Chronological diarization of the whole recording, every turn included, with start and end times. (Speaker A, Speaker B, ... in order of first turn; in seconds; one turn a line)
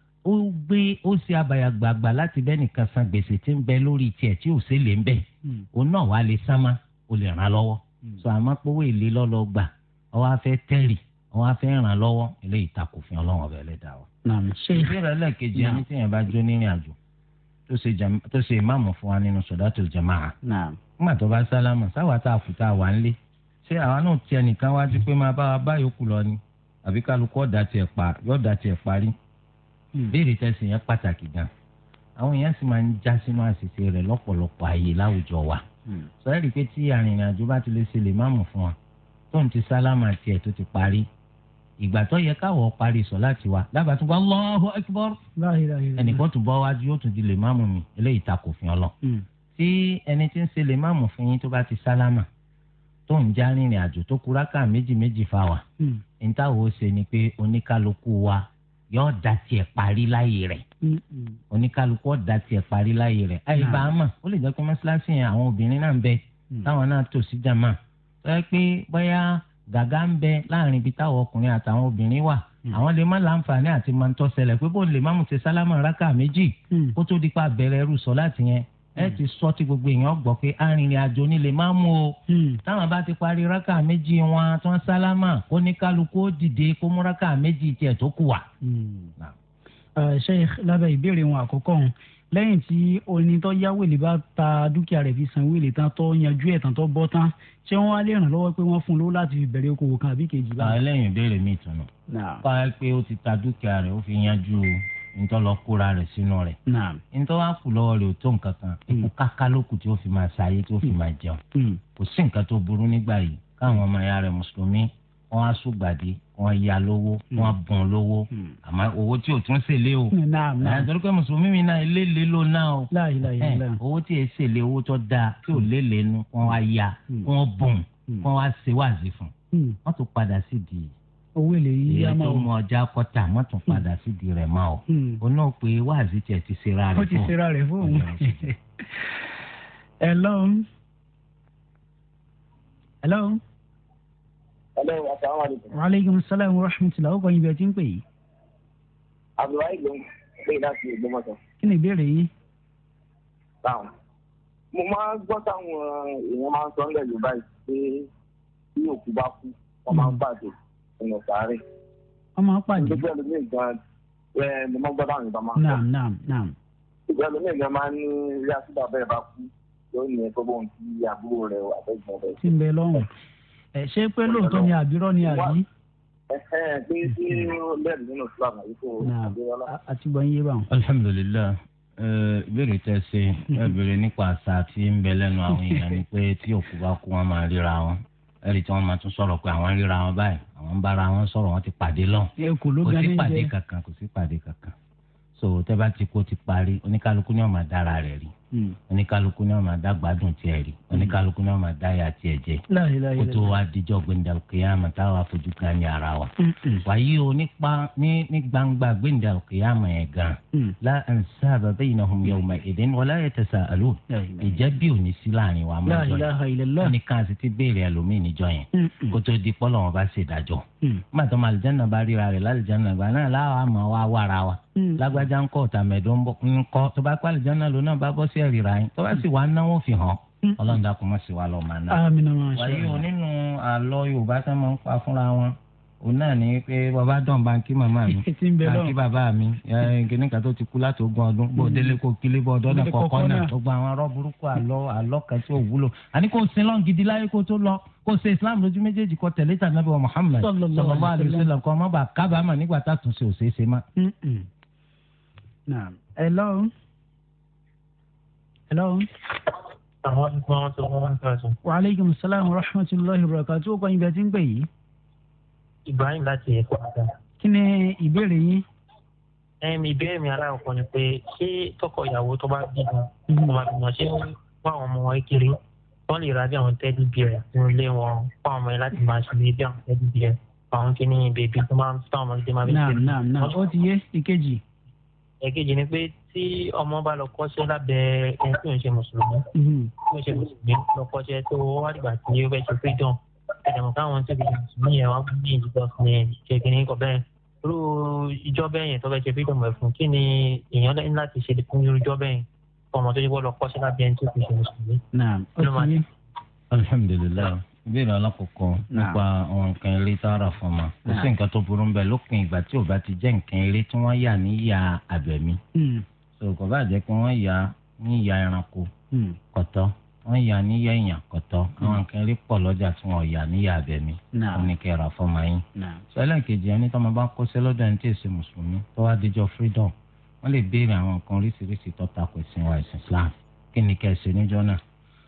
Speaker A: 0.2-14.1
Speaker B: 14.2-15.0
Speaker A: 14.7-17.0
Speaker B: 15.6-15.8
Speaker A: 17.7-20.4
Speaker B: 20.4-20.8
Speaker A: 21.0-29.1
Speaker A: 30.1-31.5
Speaker A: 32.2-35.6
Speaker A: 36.2-38.8
Speaker A: 39.3-41.1
Speaker A: 41.8-45.2
Speaker B: 45.4-46.2
Speaker A: 46.0-48.9
Speaker A: 49.5-52.3
Speaker A: 53.1-55.6
Speaker A: 56.2-60.6
Speaker B: 60.8-61.4
Speaker A: 61.5-88.5
Speaker B: 63.6-63.9
Speaker B: 76.7-77.0
Speaker B: 82.3-82.6
Speaker B: 88.6-89.1
Speaker B: 90.0-100.8
Speaker A: 100.6-101.9
Speaker B: 102.1-102.4
Speaker A: 102.4-106.6
Speaker B: 106.7-107.0
Speaker A: 107.1-111.4
Speaker B: 111.5-111.8
Speaker A: 112.0-129.3
Speaker B: 118.3-118.6
Speaker B: 120.1-120.9
Speaker B: 122.9-123.8
Speaker B: 129.5-129.8
Speaker A: 129.8-130.9
Speaker B: 131.4-132.5
Speaker A: 131.9-138.5
Speaker B: 134.9-135.2
Speaker B: 136.9-139.3
Speaker B: 140.0-140.7
Speaker B: 143.0-143.4
Speaker C: 144.8-145.7
Speaker B: 145.7-148.0
Speaker C: 149.4-151.4
Speaker B: 151.6-152.3
Speaker C: 153.6-153.9
Speaker C: 154.7-158.1
Speaker C: 158.8-161.6
Speaker B: 162.4-163.1
Speaker C: 162.8-163.8
Speaker C: 164.3-165.8
Speaker B: 165.6-166.6
Speaker C: 167.1-172.4
Speaker B: 172.4-173.1
Speaker B: 173.8-175.7
Speaker C: 174.3-175.5
Speaker C: 176.3-179.7
Speaker B: 179.0-180.7
Speaker A: 180.7-194.8
Speaker B: 192.4-193.5
Speaker A: 195.4-198.3
Speaker B: 198.5-198.8
Speaker A: 198.9-202.6
Speaker B: 202.7-203.6
Speaker A: 203.2-206.3
Speaker B: 206.4-206.9
Speaker A: 206.8-253.8
Speaker B: 214.1-214.7
Speaker B: 215.9-216.9
Speaker B: 218.7-219.2
Speaker B: 224.8-225.2
Speaker B: 230.4-230.8
Speaker B: 231.9-233.0
Speaker B: 238.1-238.9
Speaker B: 241.6-242.0
Speaker B: 242.7-243.5
Speaker B: 250.4-251.5
Speaker B: 254.0-254.5
Speaker B: 255.7-256.7
Speaker B: 258.7-259.1
Speaker D: 260.0-261.6
Speaker B: 261.6-264.7
Speaker D: 265.9-267.1
Speaker B: 267.4-268.6
Speaker D: 269.6-283.6
Speaker B: 273.3-273.6
Speaker B: 282.7-284.6
Speaker D: 285.4-289.4
Speaker B: 289.6-289.9
Speaker D: 290.1-305.0
Speaker B: 305.1-306.1
Speaker D: 305.6-306.0
Speaker A: 306.7-315.6
Speaker B: 308.9-309.2
Speaker B: 311.1-311.3
Speaker B: 315.8-316.1
Speaker A: 316.4-318.9
Speaker B: 319.1-319.4
Speaker A: 319.5-334.8
Speaker B: 324.3-324.7
Speaker B: 325.8-326.1